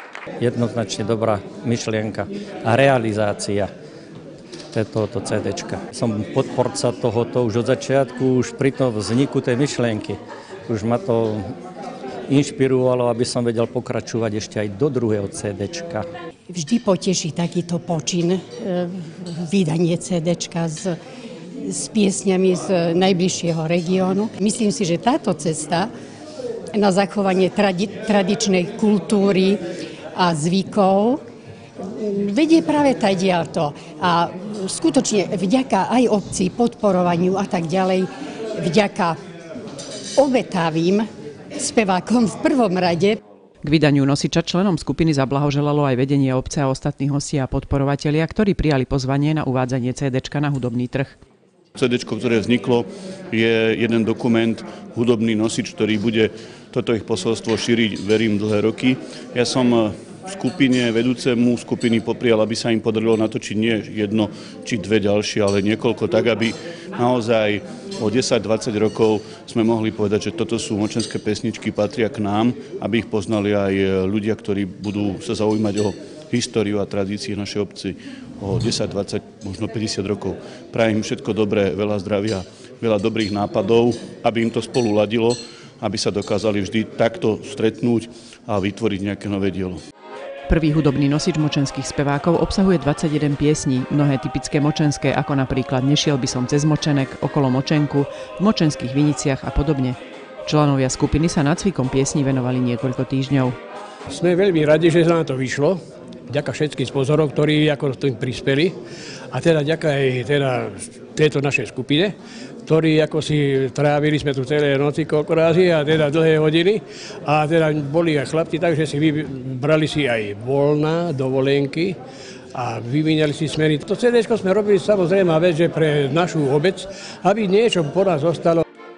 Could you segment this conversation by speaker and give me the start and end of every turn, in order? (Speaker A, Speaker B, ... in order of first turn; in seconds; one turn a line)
Speaker A: 0.4-3.7
Speaker A: 4.7-11.5
Speaker A: 12.3-16.1
Speaker B: 16.5-20.9
Speaker B: 21.6-25.9
Speaker B: 26.7-29.6
Speaker B: 30.2-31.2
Speaker B: 32.0-39.2
Speaker B: 40.2-41.1
Speaker B: 41.6-43.2
Speaker C: 43.6-51.2
Speaker D: 51.8-89.8
Speaker C: 90.5-103.5
Speaker E: 104.1-108.7
Speaker E: 109.3-112.2
Speaker E: 112.7-122.0
Speaker E: 122.5-128.6